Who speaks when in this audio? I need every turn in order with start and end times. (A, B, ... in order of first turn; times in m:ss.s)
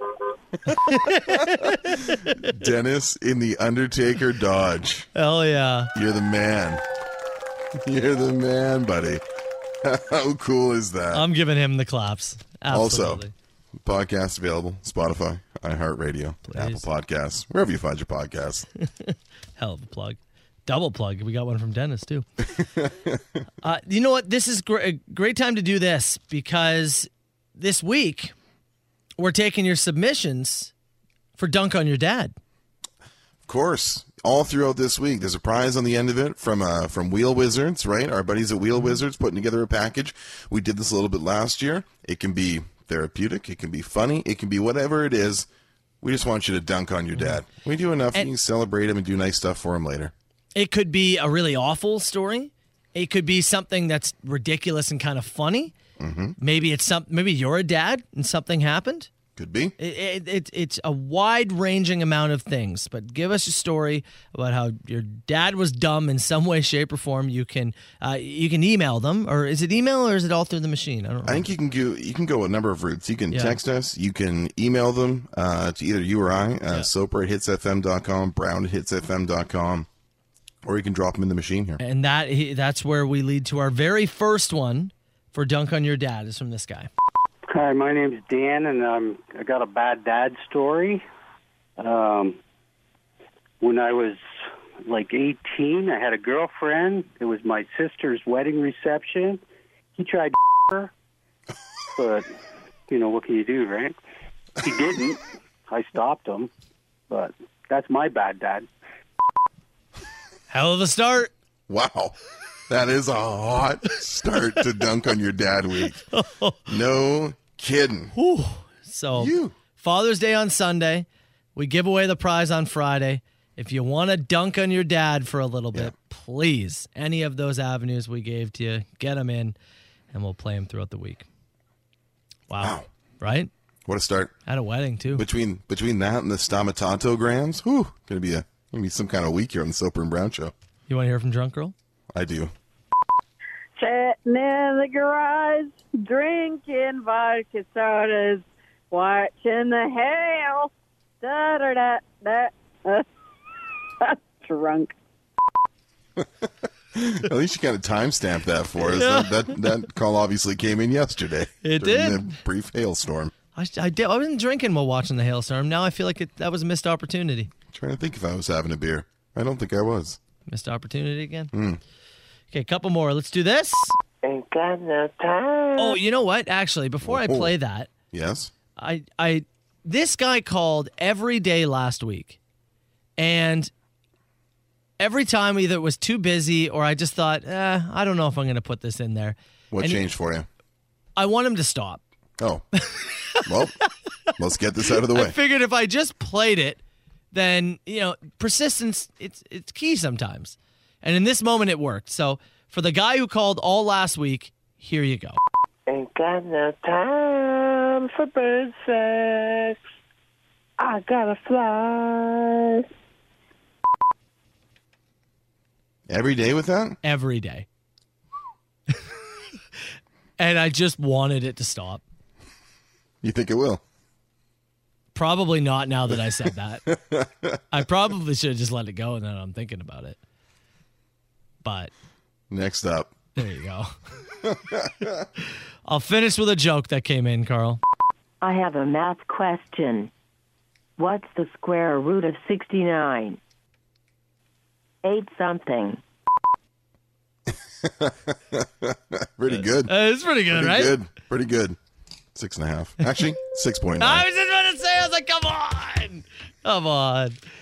0:00.7-0:02.4 A
0:01.3-0:05.1 B
0:05.1-0:05.9 A
0:05.9-0:06.8 B
0:07.7-0:09.2 B
0:09.8-0:11.3 B
0:11.1-0:13.3 A
0:12.7-0:13.2 B
0:13.8-0:18.7 B
0:16.5-0:16.8 A
0:19.0-0:22.2 A
0:22.6-0:23.2 B
0:23.6-0:28.3 A
0:29.2-0:30.7 A
0:31.4-0:32.3 A
0:33.4-0:45.5 B
0:46.0-0:50.1 B
0:50.5-0:55.7 A
0:56.0-0:56.4 B
0:56.4-0:59.1 A
0:59.4-0:59.7 B
0:59.8-1:11.5 A
1:11.2-1:19.9 B
1:13.3-1:13.6 A
1:20.6-1:21.8 B
1:21.8-1:26.9 A
1:27.5-1:31.0 C
1:31.8-1:32.4 C
1:33.6-1:34.2 C
1:34.8-1:39.4 C
1:39.9-1:40.9 C
1:42.0-1:42.3 C
1:42.9-1:44.0 C
1:44.6-1:46.5 C
1:47.1-1:48.7 C
1:50.5-1:51.3 A
1:51.7-1:52.1 B
1:52.7-1:56.0 B
1:56.0-1:56.6 A
1:56.7-1:58.1 B
1:58.1-2:09.6 A
1:59.1-1:59.6 B
2:10.1-2:11.2 A
2:12.5-2:13.5 A
2:12.6-2:12.9 B
2:13.8-2:14.3 B
2:14.5-2:15.2 A
2:15.1-2:20.5 B
2:20.9-2:21.7 A
2:22.1-2:22.5 B
2:23.8-2:30.7 D
2:31.2-2:33.0 D
2:34.0-2:34.9 D
2:36.9-2:43.3 B
2:38.8-2:39.6 A
2:41.6-2:42.4 A
2:43.5-2:47.5 A
2:47.7-2:50.2 B
2:50.5-2:51.5 A
2:51.5-2:51.8 B
2:52.5-2:54.0 A
2:54.2-2:56.0 E
2:55.8-2:57.9 A
2:57.0-2:57.5 B
2:58.1-2:58.5 B
2:58.8-3:02.4 A
3:03.2-3:03.7 A
3:05.0-3:10.1 A
3:09.7-3:10.5 B
3:11.2-3:12.0 A
3:12.4-3:12.6 B
3:12.9-3:13.4 A
3:13.4-3:13.7 B
3:14.4-3:15.4 B
3:14.8-3:16.8 A
3:17.3-3:25.4 A
3:25.9-3:29.8 E
3:30.8-3:32.8 E
3:36.1-3:37.0 B
3:37.0-3:37.7 A
3:40.4-3:42.0 A
3:43.2-3:43.8 B
3:45.1-3:46.9 A
3:46.9-3:47.6 B
3:47.7-3:50.2 A
3:51.6-3:51.9 A
3:52.5-3:53.2 B
3:53.4-3:54.0 A
3:54.4-3:55.1 B
3:55.8-3:57.8 A
3:58.4-4:00.1 F
4:01.0-4:03.4 F
4:05.0-4:06.0 F
4:07.5-4:09.9 B
4:09.5-4:10.9 A
4:10.5-4:11.8 B
4:12.3-4:14.2 B
4:14.0-4:17.4 A